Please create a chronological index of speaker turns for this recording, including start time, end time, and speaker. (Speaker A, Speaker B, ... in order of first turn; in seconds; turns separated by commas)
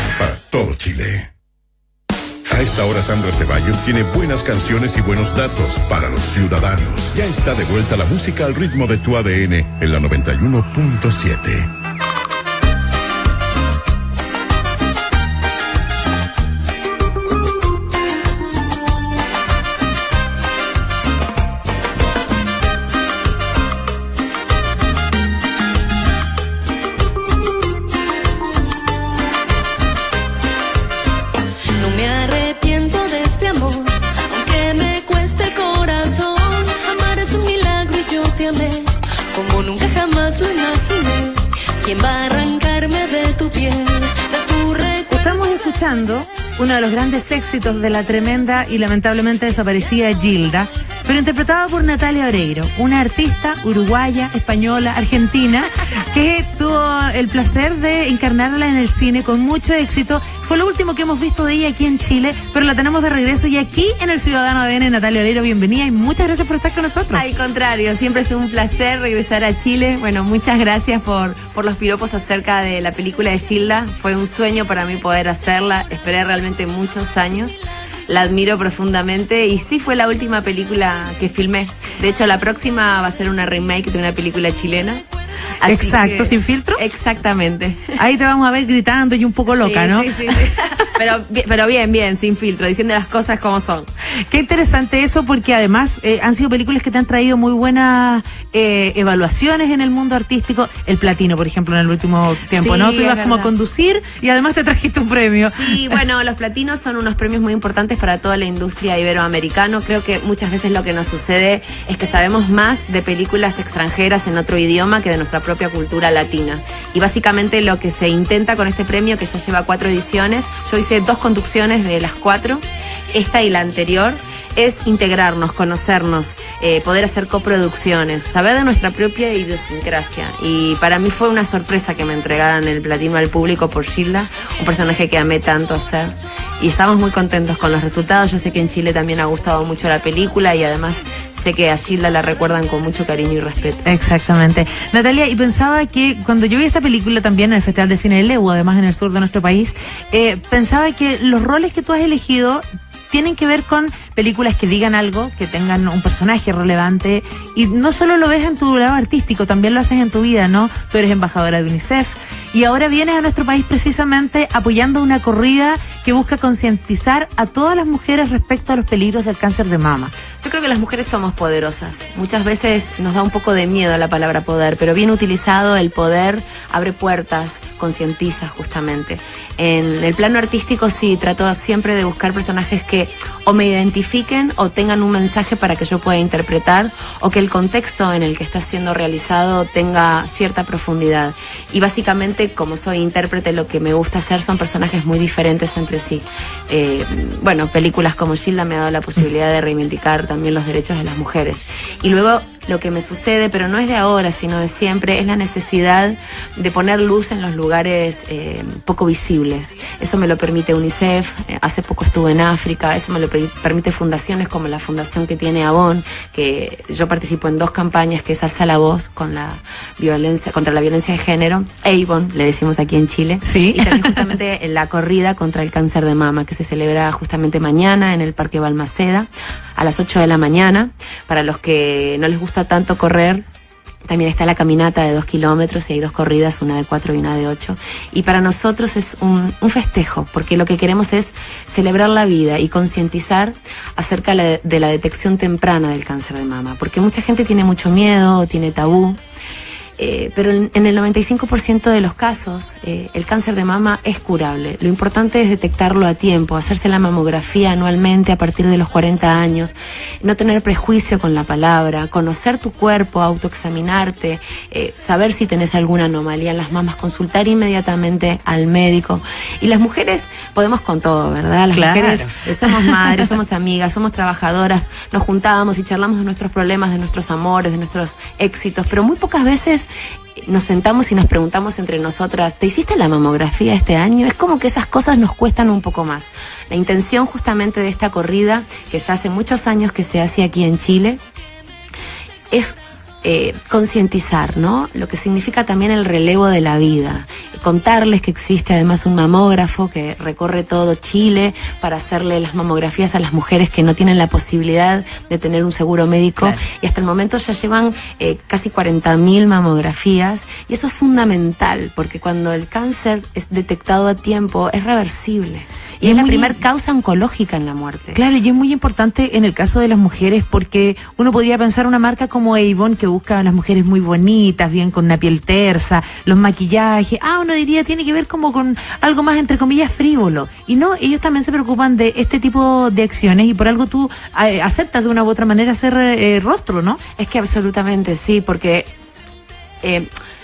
Speaker A: 0.1-1.3, Speaker A: 2.5-11.7, Speaker B: 31.8-45.2, Speaker C: 45.1-67.2, Speaker D: 67.1-85.0, Speaker D: 85.6-88.0, Speaker C: 85.6-86.8, Speaker C: 88.0-90.5, Speaker D: 89.5-93.9, Speaker C: 94.3-106.0, Speaker D: 102.5-103.5, Speaker D: 105.5-143.8, Speaker C: 143.8-170.1, Speaker D: 170.4-233.4, Speaker C: 223.4-224.2, Speaker D: 234.1-249.2, Speaker D: 250.0-279.9, Speaker C: 271.7-273.3, Speaker D: 280.4-291.2, Speaker D: 292.5-318.2, Speaker C: 306.4-306.6, Speaker C: 316.0-316.6, Speaker C: 318.1-337.0, Speaker D: 337.2-338.9, Speaker D: 339.8-340.1